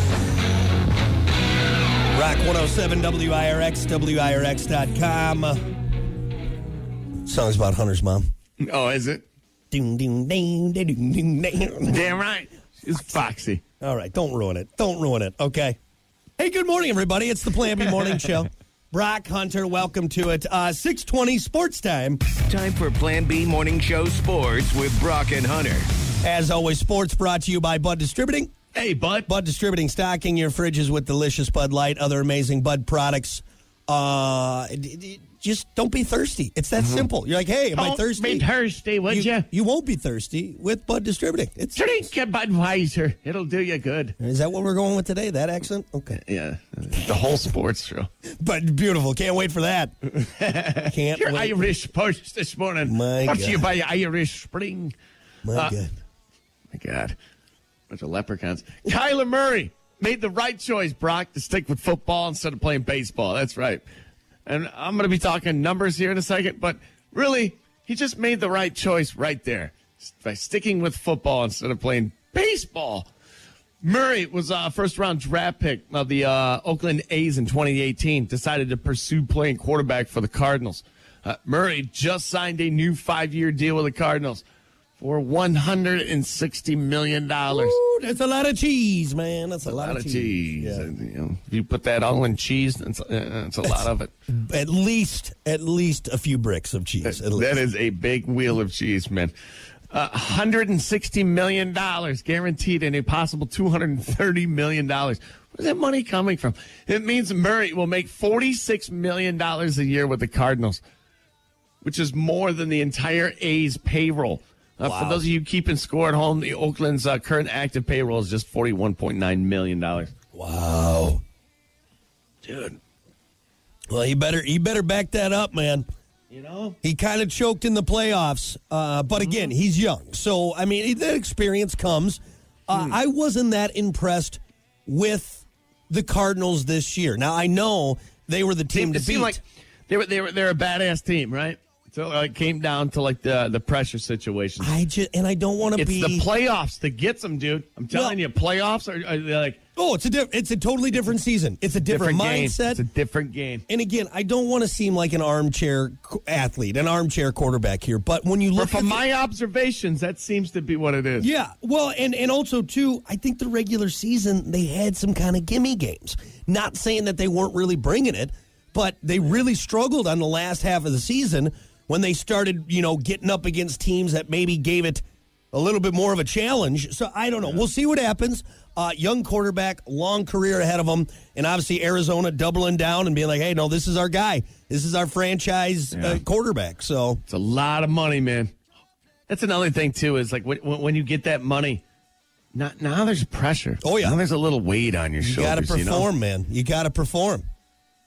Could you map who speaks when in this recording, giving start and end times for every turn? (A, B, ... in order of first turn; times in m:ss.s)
0:02.1-0:05.6 A
0:07.2-0:08.2 A
0:08.6-0:09.2 B
0:09.7-0:12.1 A
0:11.9-0:13.6 B
0:13.8-0:15.8 A
0:16.4-0:22.2 A
0:22.5-0:25.9 C
0:26.2-0:28.5 A
0:28.7-0:29.3 B
0:29.3-0:38.5 A
0:36.8-0:37.1 B
0:37.7-0:39.5 B
0:39.1-0:42.0 A
0:41.8-0:44.2 B
0:44.2-0:46.2 A
0:46.1-0:48.1 B
0:48.4-0:49.9 A
0:50.1-0:54.9 B
0:50.9-0:51.7 A
0:52.8-0:53.7 A
0:55.4-0:55.9 A
0:55.5-0:55.8 B
0:56.7-0:57.2 B
0:57.9-1:03.8 B
1:04.5-1:13.1 B
1:13.8-1:24.4 B
1:25.0-1:27.8 B
1:27.5-1:30.9 A
1:29.6-1:34.1 B
1:34.3-1:37.6 A
1:37.0-1:39.3 B
1:39.9-1:50.8 B
1:51.8-2:00.1 B
1:54.8-1:55.2 A
2:00.3-2:01.2 A
2:02.4-2:02.8 B
2:03.9-2:05.8 A
2:06.3-2:06.8 B
2:06.8-2:19.4 A
2:18.7-2:24.7 B
2:24.6-2:26.3 A
2:25.8-2:29.6 B
2:27.9-2:28.2 A
2:29.8-2:32.8 A
2:31.8-2:33.6 B
2:33.7-2:39.0 A
2:38.6-2:41.3 B
2:41.2-2:55.0 A
2:55.5-3:07.2 A
3:05.9-3:06.2 B
3:07.3-3:08.5 B
3:09.3-3:11.8 B
3:12.5-3:16.1 B
3:13.8-3:14.2 A
3:15.2-3:17.4 A